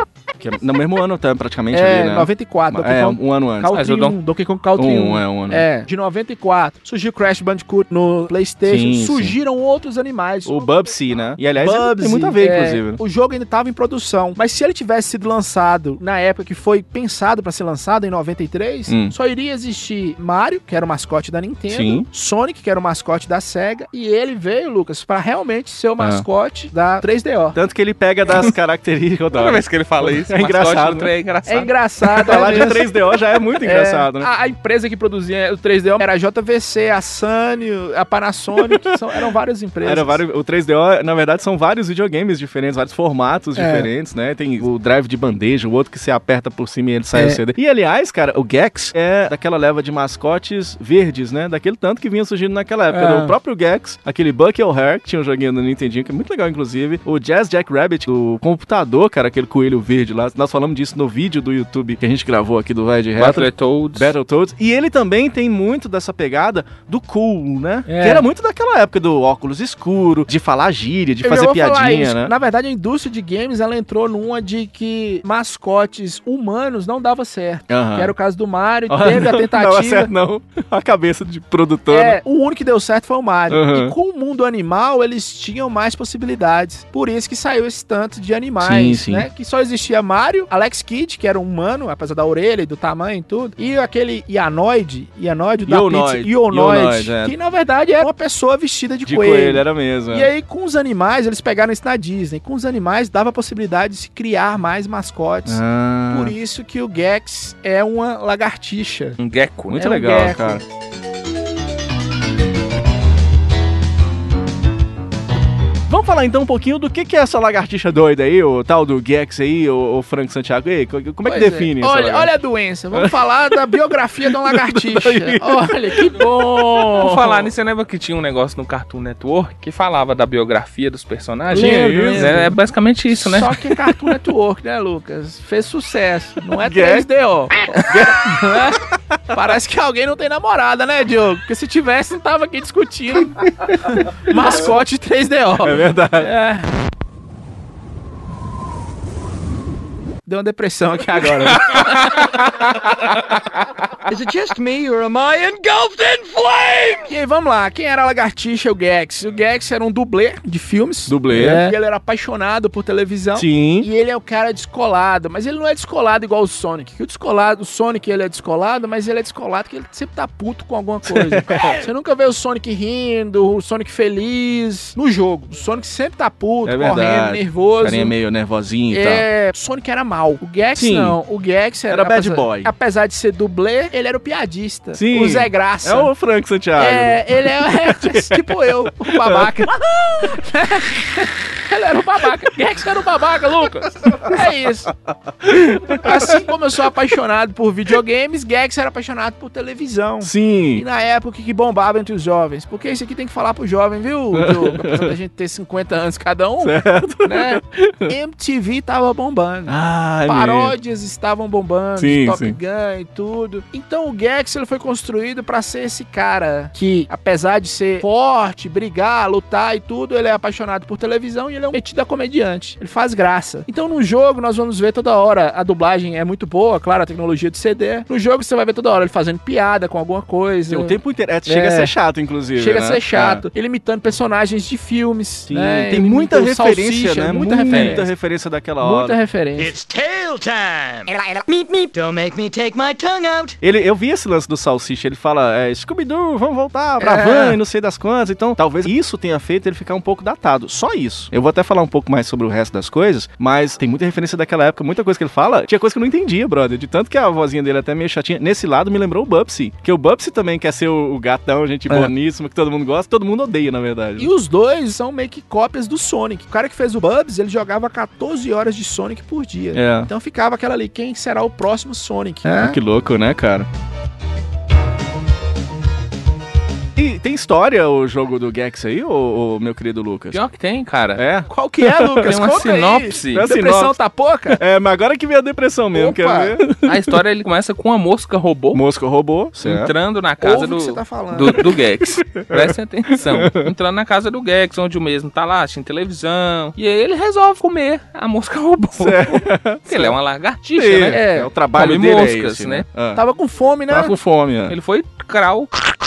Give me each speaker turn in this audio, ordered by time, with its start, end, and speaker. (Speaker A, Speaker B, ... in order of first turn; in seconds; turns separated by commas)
Speaker A: 0.4-3.8, Speaker B: 1.7-10.7, Speaker C: 3.7-4.2, Speaker A: 4.8-5.7, Speaker A: 8.7-9.3, Speaker A: 10.4-13.0, Speaker B: 11.6-27.6, Speaker A: 18.9-19.1, Speaker A: 21.7-22.1, Speaker A: 26.0-26.2, Speaker A: 27.5-31.1, Speaker C: 29.3-31.7, Speaker B: 31.5-33.0, Speaker A: 32.1-34.3, Speaker B: 33.6-40.2, Speaker A: 39.8-72.3, Speaker B: 43.5-43.9, Speaker B: 47.1-47.4, Speaker B: 52.9-53.3, Speaker C: 63.1-64.1, Speaker B: 67.8-68.2, Speaker B: 71.2-80.1, Speaker A: 77.7-78.1, Speaker A: 78.9-82.2, Speaker B: 81.9-109.2, Speaker A: 83.5-83.9, Speaker A: 88.6-89.2, Speaker A: 95.7-97.3, Speaker A: 99.0-100.3, Speaker A: 105.5-106.3, Speaker C: 109.2-109.9, Speaker A: 109.7-110.6, Speaker B: 109.8-110.6, Speaker A: 115.9-122.3, Speaker B: 121.2-127.5, Speaker A: 124.3-126.9, Speaker C: 127.0-133.5, Speaker B: 131.5-132.6, Speaker A: 131.5-132.4, Speaker B: 133.1-146.7, Speaker A: 136.6-137.1, Speaker A: 137.8-138.2, Speaker A: 145.6-146.3, Speaker B: 150.2-153.1, Speaker D: 154.1-157.1, Speaker B: 157.1-178.2, Speaker A: 161.1-161.7, Speaker A: 163.3-163.9, Speaker A: 171.1-171.8, Speaker A: 176.6-179.2, Speaker B: 178.9-186.1, Speaker A: 180.8-181.2, Speaker A: 181.9-182.7, Speaker A: 184.9-189.5, Speaker B: 186.8-194.9, Speaker A: 195.4-196.2, Speaker B: 195.9-209.7, Speaker A: 200.2-200.8, Speaker A: 204.3-205.1, Speaker A: 206.6-208.1, Speaker A: 209.7-210.7, Speaker B: 210.2-231.9, Speaker A: 212.0-212.6, Speaker A: 230.7-233.4, Speaker B: 232.6-238.1, Speaker A: 235.5-239.2, Speaker C: 237.7-238.0, Speaker B: 238.8-239.7, Speaker A: 243.6-264.3, Speaker B: 247.0-247.6, Speaker B: 264.2-272.8, Speaker A: 269.7-270.1, Speaker A: 272.4-273.7, Speaker A: 276.9-280.4, Speaker C: 280.3-281.2, Speaker A: 281.2-282.5, Speaker B: 281.5-284.6, Speaker C: 282.2-283.4, Speaker A: 283.3-284.0, Speaker A: 284.5-286.9, Speaker B: 285.9-286.6, Speaker C: 286.9-288.8, Speaker A: 288.7-289.9, Speaker C: 289.6-301.2, Speaker B: 290.4-291.6, Speaker A: 292.4-292.6, Speaker A: 293.2-293.7, Speaker A: 299.0-300.1, Speaker A: 300.7-303.2, Speaker B: 301.1-301.5, Speaker C: 301.7-302.8, Speaker B: 303.1-304.1, Speaker A: 303.9-304.7, Speaker C: 304.7-305.7